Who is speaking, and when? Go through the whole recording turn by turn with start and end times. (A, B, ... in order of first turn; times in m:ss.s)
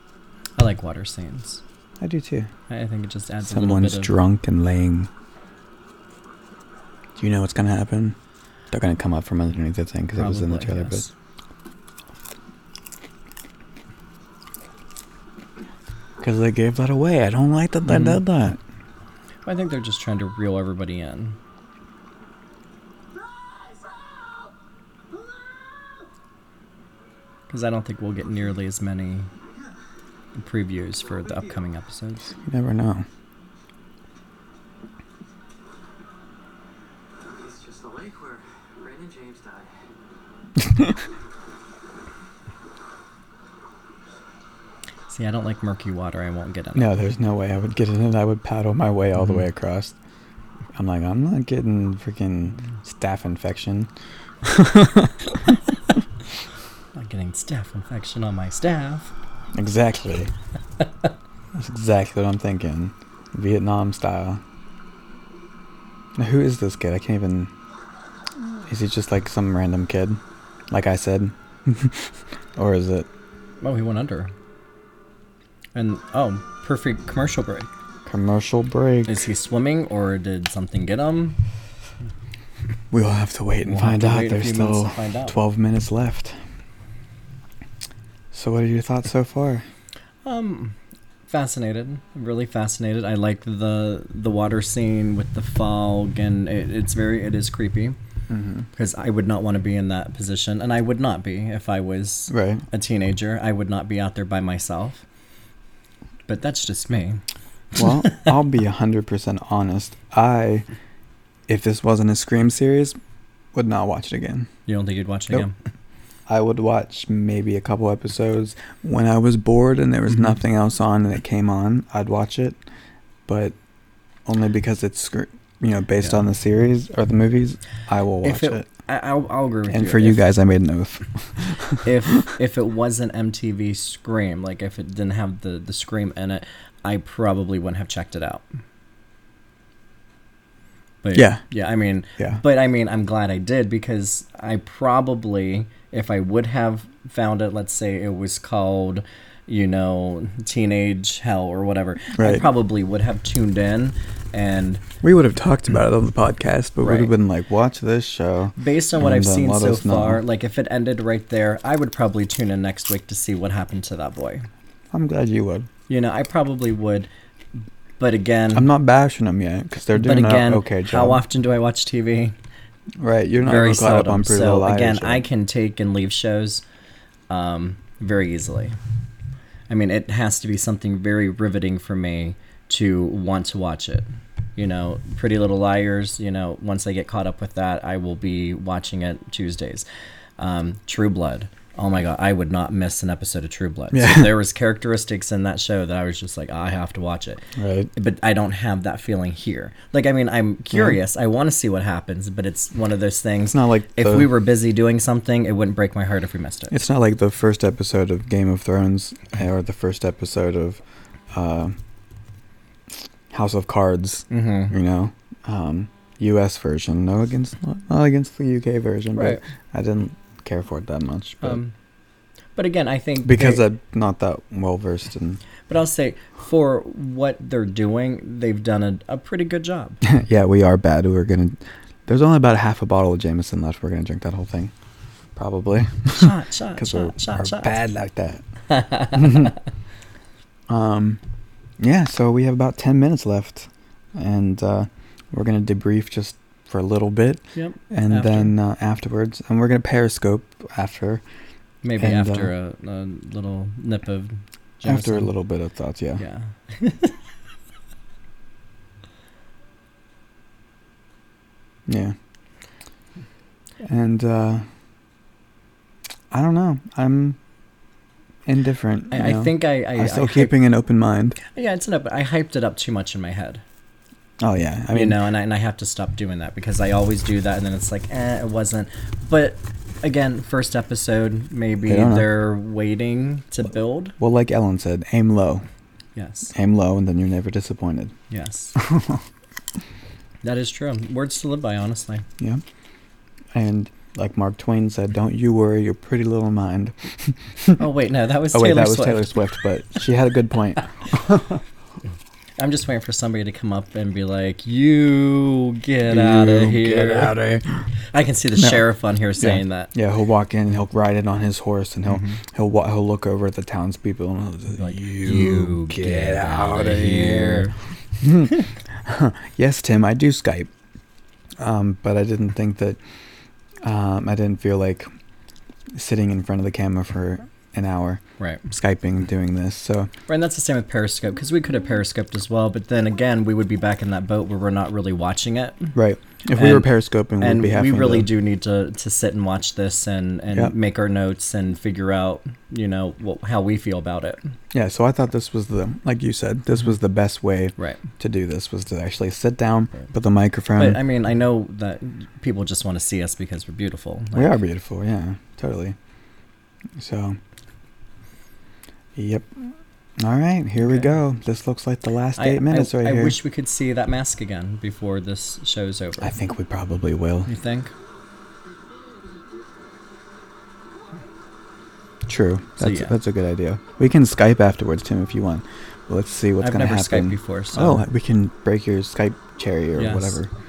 0:00.6-0:01.6 A
0:02.0-0:02.5 B
0:02.7-0:04.2 A
0:03.4-0:05.1 B
0:07.2-0:08.2 B
0:08.7-0:11.1 B
0:10.2-0:11.1 A
0:16.2-0:18.6 B
0:17.9-0:18.2 A
0:19.4-0:21.4 A
0:27.5-0:29.3 A
0:30.4-0:32.3 A
0:31.0-0:31.6 C
0:32.5-0:33.1 B
0:37.2-0:39.8 C
0:45.1-0:47.0 A
0:46.8-0:50.0 B
0:49.2-0:49.4 A
0:50.7-0:53.9 B
0:54.4-0:55.5 B
0:56.9-0:59.1 A
0:59.5-1:00.3 B
1:01.5-1:04.4 B
1:06.2-1:07.5 B
1:08.6-1:13.1 B
1:13.6-1:14.3 A
1:15.7-1:17.7 A
1:18.1-1:19.3 B
1:19.1-1:21.4 A
1:22.9-1:26.4 B
1:23.6-1:25.4 A
1:28.3-1:29.7 B
1:30.2-1:38.0 A
1:38.3-1:38.7 B
1:38.8-1:45.0 A
1:42.3-1:42.6 B
1:46.3-1:47.2 A
1:47.7-1:48.3 A
1:47.8-1:50.7 B
1:51.5-1:53.0 B
1:53.5-1:54.5 B
1:54.7-1:55.6 A
1:56.3-2:02.6 B
2:03.3-2:03.6 B
2:04.2-2:08.7 B
2:08.2-2:10.3 A
2:09.7-2:11.9 B
2:11.8-2:18.6 A
2:21.0-2:34.8 A
2:21.1-2:21.4 B
2:22.2-2:22.4 B
2:32.1-2:32.5 B
2:35.0-2:40.2 B
2:36.8-2:37.1 A
2:38.6-2:44.5 A
2:44.9-2:45.7 B
2:45.9-2:47.1 A
2:48.0-2:48.7 A
2:48.5-2:51.2 B
2:50.0-2:52.4 A
2:53.0-2:55.2 B
2:53.4-2:56.6 A
2:57.3-2:58.8 A
2:59.7-3:09.9 A
3:10.4-3:26.8 A
3:13.9-3:14.3 B
3:17.6-3:17.9 B
3:20.7-3:21.0 B
3:23.5-3:24.3 B
3:26.7-3:31.8 B
3:33.3-3:41.6 B
3:34.3-3:34.7 A
3:39.2-3:39.4 A
3:41.4-3:41.8 A
3:42.6-3:43.6 A
3:43.2-3:45.4 B
3:45.7-3:50.0 A
3:50.0-3:54.7 B
3:55.4-3:59.5 B
3:56.1-3:57.9 A
3:58.7-3:59.5 A
4:00.7-4:01.2 B
4:01.8-4:11.3 B
4:07.6-4:08.6 A
4:11.8-4:15.3 A
4:11.9-4:12.5 B
4:14.8-4:16.2 B
4:16.2-4:17.2 A
4:21.9-4:22.2 B
4:23.8-4:24.7 B
4:26.3-4:27.4 B
4:28.5-4:31.4 B
4:29.1-4:30.6 A
4:31.5-4:33.6 A
4:34.4-4:35.2 B
4:34.9-4:44.2 A
4:41.8-4:42.3 B
4:44.2-4:45.7 B
4:46.2-4:46.5 A
4:46.5-4:48.2 B
4:48.3-4:48.8 A
4:48.8-4:49.2 B
4:50.4-4:52.3 A
4:53.5-4:57.8 B
4:57.8-4:59.4 A
4:58.5-5:01.6 B
5:02.6-5:07.3 A
5:06.1-5:07.9 B
5:08.1-5:09.9 A
5:08.6-5:08.8 B
5:09.4-5:20.7 B
5:12.1-5:12.4 A
5:14.8-5:17.8 A
5:21.6-5:23.0 B
5:23.8-5:25.1 B
5:25.9-5:30.1 B
5:30.3-5:44.4 A
5:35.9-5:38.3 B
5:44.7-5:51.0 B
5:50.8-5:54.6 A
5:54.3-5:56.0 B
5:57.0-5:57.4 B
5:59.2-6:03.4 B
6:00.8-6:01.1 A
6:02.4-6:06.3 A
6:06.2-6:07.5 B
6:07.5-6:07.9 A
6:12.3-6:20.5 B
6:12.8-6:13.2 A
6:16.6-6:18.1 A
6:20.0-6:20.4 A